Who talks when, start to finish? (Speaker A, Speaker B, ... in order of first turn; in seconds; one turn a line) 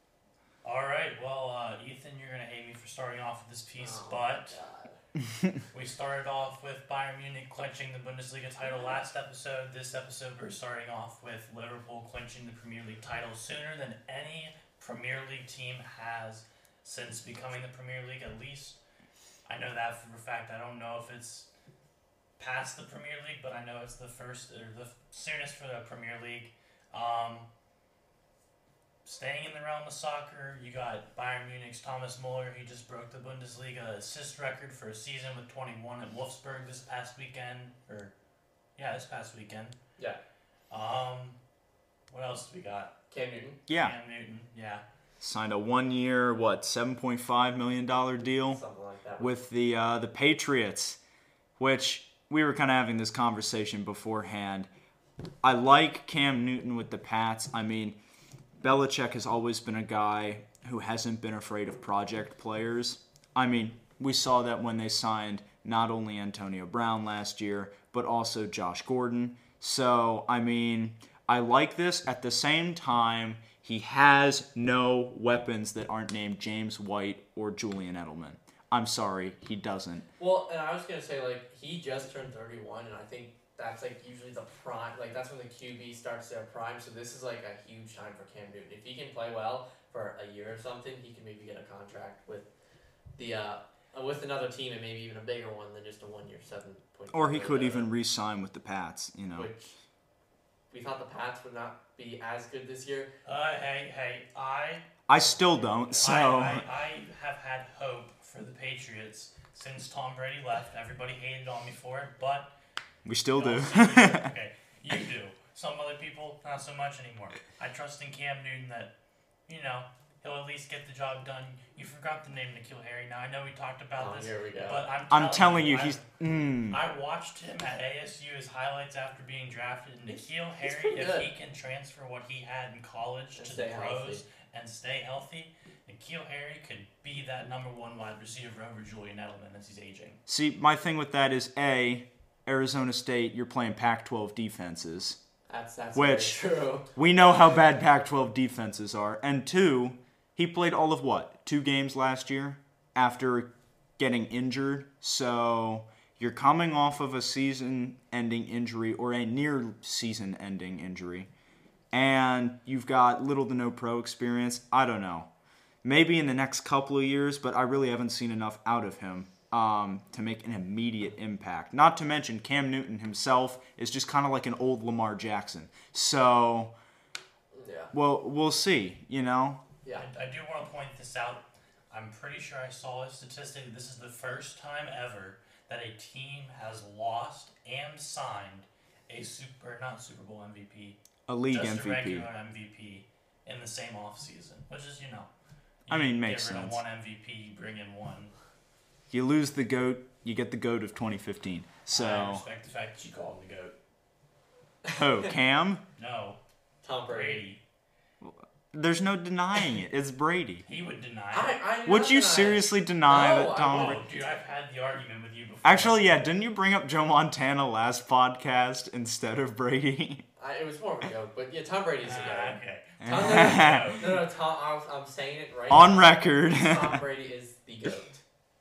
Speaker A: 0.6-4.6
Speaker B: 3.8-5.0
Speaker A: 5.7-18.8
Speaker B: 8.7-8.9
Speaker A: 19.5-21.5
Speaker A: 22.4-27.5
Speaker A: 29.1-38.1
Speaker A: 38.8-39.8
Speaker A: 40.7-41.4
Speaker A: 42.1-43.0
Speaker B: 43.1-43.6
Speaker C: 43.7-44.0
Speaker A: 43.8-44.8
Speaker C: 45.2-48.6
Speaker B: 48.5-49.3
Speaker C: 49.2-51.0
Speaker C: 51.6-54.7
Speaker C: 55.4-58.0
Speaker C: 58.6-80.1
Speaker B: 80.2-92.5
Speaker B: 93.2-97.9
Speaker C: 97.1-99.5
Speaker B: 99.3-99.7
Speaker B: 100.7-103.1
Speaker A: 103.3-104.9
Speaker C: 105.1-106.7
Speaker B: 105.2-106.1
Speaker A: 106.0-112.5
Speaker C: 113.1-114.3
Speaker A: 113.4-118.9
Speaker A: 119.5-126.1
Speaker B: 124.0-124.8
Speaker C: 125.1-126.8
Speaker A: 126.7-140.2
Speaker B: 130.1-131.3
Speaker B: 133.4-134.2
Speaker C: 140.3-145.2
Speaker B: 145.5-146.9
Speaker C: 145.9-146.4
Speaker C: 146.9-161.3
Speaker C: 161.9-165.3
Speaker C: 165.8-176.7
Speaker B: 177.5-177.9
Speaker C: 177.9-179.6
Speaker A: 180.0-191.0
Speaker C: 191.3-192.3
Speaker A: 191.5-195.3
Speaker A: 195.9-198.3
Speaker C: 195.9-196.8
Speaker C: 199.1-202.4
Speaker A: 201.9-203.8
Speaker B: 204.8-205.3
Speaker C: 204.9-205.8
Speaker A: 206.0-206.4
Speaker B: 206.8-207.4
Speaker A: 207.1-207.6
Speaker C: 208.2-210.6
Speaker A: 210.7-211.6
Speaker B: 211.3-214.1
Speaker C: 211.8-214.0
Speaker A: 213.6-216.1
Speaker C: 215.6-220.2
Speaker B: 220.4-228.2
Speaker A: 222.0-224.2
Speaker C: 223.0-224.0
Speaker C: 225.7-227.0